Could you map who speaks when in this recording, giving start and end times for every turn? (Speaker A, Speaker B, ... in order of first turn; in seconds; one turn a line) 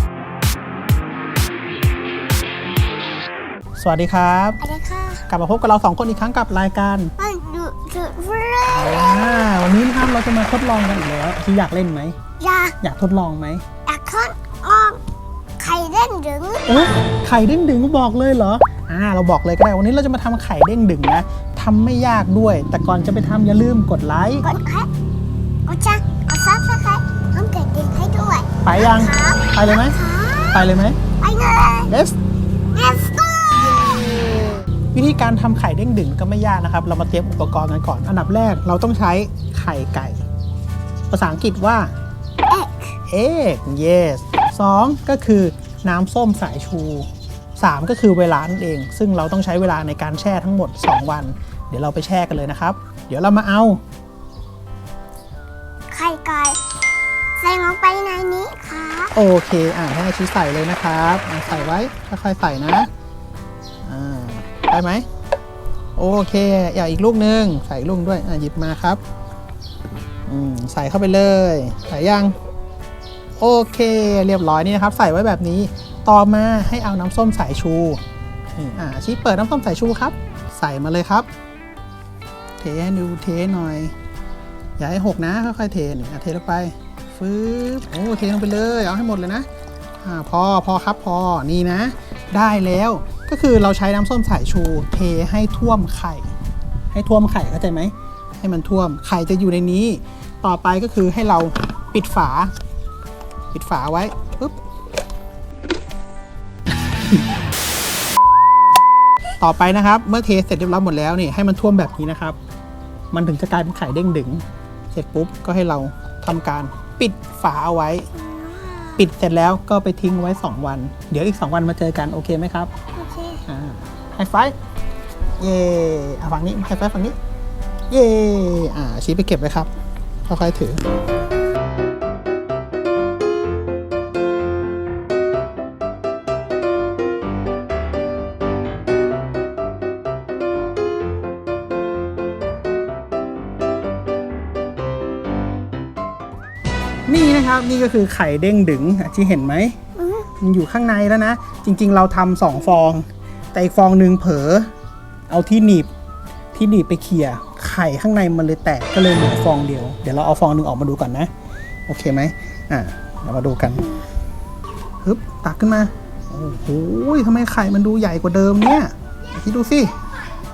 Speaker A: 3.8-4.6
Speaker B: 4.6-5.3
Speaker A: 5.3-7.1
Speaker B: 7.2-9.4
Speaker A: 8.7-12.2
Speaker B: 12.4-12.8
Speaker A: 12.8-13.7
Speaker B: 13.9-15.0
Speaker B: 15.6-16.9
Speaker A: 16.7-24.5
Speaker B: 24.4-24.9
Speaker B: 25.7-31.9
Speaker A: 28.6-30.0
Speaker A: 30.5-31.0
Speaker A: 31.9-32.2
Speaker B: 32.7-34.0
Speaker A: 34.9-40.3
Speaker A: 41.1-41.9
Speaker B: 42.5-43.0
Speaker A: 43.1-53.8
Speaker B: 55.9-56.6
Speaker B: 57.4-59.1
Speaker A: 59.1-62.9
Speaker A: 63.9-65.1
Speaker A: 66.0-69.0
Speaker A: 70.3-72.4
Speaker A: 73.4-78.0
Speaker A: 78.5-81.3
Speaker A: 82.6-83.9
Speaker A: 84.8-89.5
Speaker A: 90.0-96.3
Speaker A: 96.9-102.5
Speaker A: 103.5-104.6
Speaker A: 109.4-112.4
Speaker A: 113.1-118.1
Speaker B: 118.2-119.1
Speaker A: 119.0-122.7
Speaker B: 123.0-123.4
Speaker A: 123.5-124.5
Speaker A: 125.4-127.2
Speaker A: 127.9-129.7
Speaker A: 130.3-130.8
Speaker A: 147.1-149.8
Speaker B: 150.0-150.3
Speaker A: 150.4-154.7
Speaker A: 155.3-155.9
Speaker A: 156.5-161.3
Speaker A: 161.9-164.0
Speaker A: 165.0-169.9